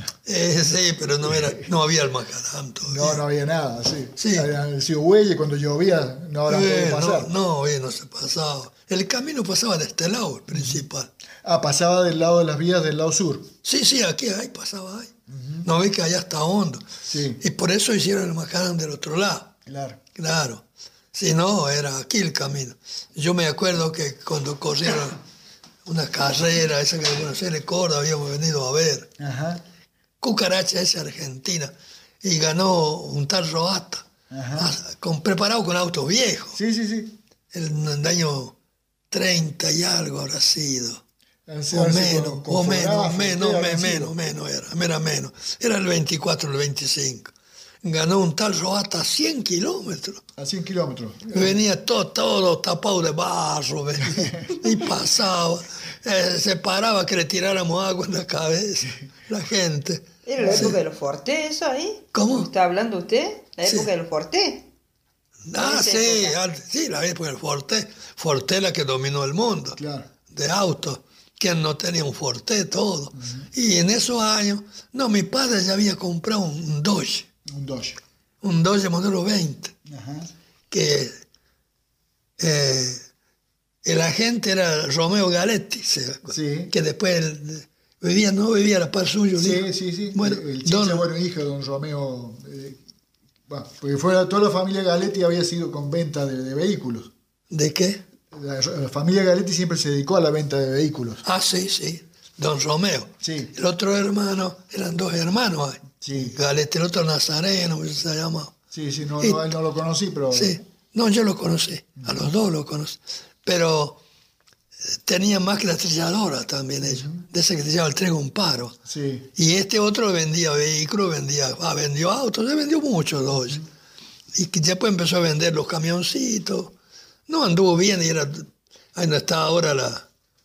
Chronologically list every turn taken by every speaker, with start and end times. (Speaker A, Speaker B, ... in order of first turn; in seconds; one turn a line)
Speaker A: 0.2-3.2
Speaker B: 1.3-1.6
Speaker B: 2.9-7.3
Speaker A: 4.2-4.5
Speaker A: 6.5-11.1
Speaker B: 10.5-10.8
Speaker B: 11.4-13.5
Speaker A: 13.6-19.5
Speaker B: 15.3-15.6
Speaker B: 17.1-17.4
Speaker B: 19.7-20.0
Speaker A: 20.1-25.2
Speaker A: 25.8-29.1
Speaker B: 29.2-29.6
Speaker A: 30.2-36.6
Speaker B: 34.3-34.7
Speaker B: 36.5-37.2
Speaker A: 37.5-38.5
Speaker A: 39.1-41.0
Speaker B: 41.5-44.1
Speaker A: 41.7-50.2
Speaker B: 50.4-51.6
Speaker A: 51.3-60.8
Speaker C: 60.2-64.7
Speaker B: 60.4-60.7
Speaker A: 62.1-62.5
Speaker A: 65.5-69.8
Speaker C: 65.6-66.3
Speaker B: 69.8-70.1
Speaker A: 70.3-77.3
Speaker B: 73.2-73.5
Speaker B: 77.5-78.0
Speaker A: 78.4-79.7
Speaker B: 79.8-80.3
Speaker A: 80.7-81.2
Speaker A: 82.4-83.0
Speaker A: 83.8-91.0
Speaker B: 86.2-86.7
Speaker B: 89.4-92.8
Speaker B: 93.5-97.1
Speaker A: 97.5-98.0
Speaker B: 98.3-101.2
Speaker A: 101.2-108.5
Speaker B: 103.2-103.5
Speaker B: 106.0-106.4
Speaker B: 108.7-110.5
Speaker A: 110.3-114.0
Speaker A: 114.9-118.8
Speaker B: 116.8-117.2
Speaker B: 118.8-119.3
Speaker A: 119.3-123.6
Speaker A: 124.3-126.7
Speaker A: 127.3-130.1